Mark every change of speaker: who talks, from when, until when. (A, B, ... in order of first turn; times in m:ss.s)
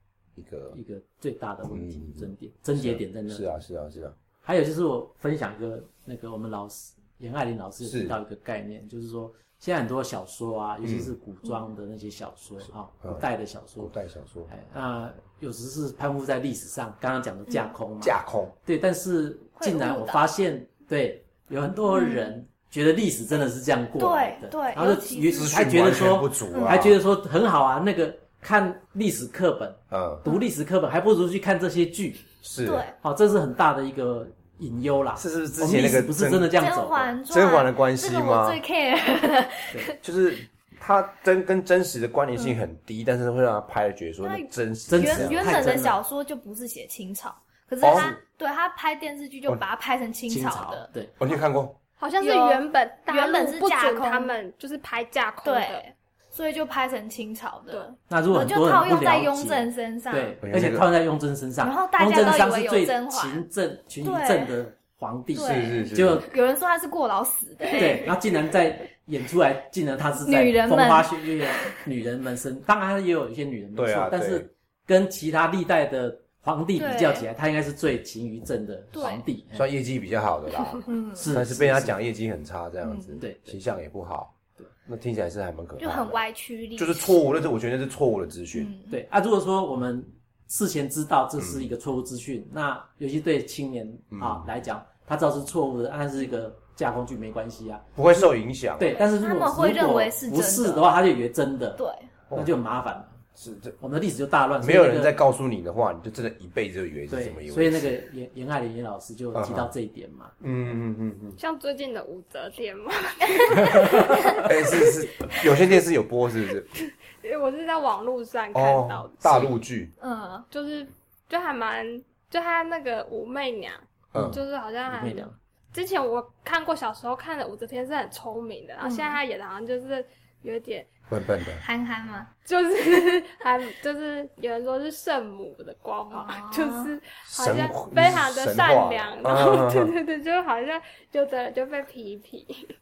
0:00.4-0:00.8 A
0:00.7-0:03.5 B
0:01.7-0:04.2 A
0:04.4-0:13.9 B
0:07.8-0:08.2 A
0:10.8-0:11.1 A
0:11.4-0:11.7 C
0:12.6-0:13.3 A
0:13.8-0:14.5 A
0:14.5-0:32.2 B
0:17.5-0:17.8 C
0:18.0-0:18.6 A
0:19.6-0:20.3 C
0:21.9-0:22.4 C
0:24.0-0:25.8 C
0:25.3-0:27.0 A
0:26.5-0:26.9 C
0:29.9-0:30.2 A
0:32.4-0:32.9 A
0:32.6-0:33.0 C
0:33.0-0:37.2 B
0:35.2-0:36.5 A
0:36.6-0:40.0 C
0:37.3-0:38.6 A
0:40.0-0:45.7 A
0:44.2-0:50.9 C
0:44.9-0:46.0 B
0:47.8-0:48.2 A
0:47.8-0:48.2 B
0:50.3-0:51.1 B
0:51.2-0:51.8 A
0:52.0-0:55.9 D
0:52.2-0:54.3 C
0:55.4-1:00.4 C
0:58.1-1:06.3 B
1:00.4-1:00.9 A
1:01.6-1:03.5 C
1:04.0-1:04.6 C
1:05.4-1:06.3 A
1:05.4-1:08.2 C
1:07.7-1:19.6 B
1:10.2-1:11.8 C
1:13.8-1:14.5 A
1:16.8-1:17.3 C
1:18.9-1:19.2 C
1:19.5-1:26.2 A
1:20.9-1:21.3 C
1:21.2-1:22.0 B
1:22.8-1:23.2 C
1:23.2-1:23.6 B
1:25.8-1:27.2 C
1:26.8-1:28.7 A
1:28.5-1:29.0 C
1:28.9-1:43.2 B
1:31.4-1:31.7 A
1:34.1-1:34.5 A
1:38.0-1:39.0 A
1:39.0-1:40.9 C
1:41.8-1:42.1 C
1:43.4-1:43.8 A
1:43.8-1:45.2 B
1:44.6-1:48.0 A
1:47.1-1:50.3 B
1:49.3-1:49.7 A
1:50.4-1:51.4 A
1:51.4-1:55.6 D
1:54.4-1:56.7 A
1:56.7-1:59.6 D
1:58.5-1:59.9 A
2:00.0-2:00.5 C
2:00.5-2:10.9 D
2:04.1-2:04.4 A
2:04.1-2:05.4 B
2:08.8-2:09.2 C
2:11.1-2:11.6 A
2:11.5-2:12.3 C
2:12.5-2:22.6 D
2:16.1-2:16.9 C
2:17.3-2:19.9 A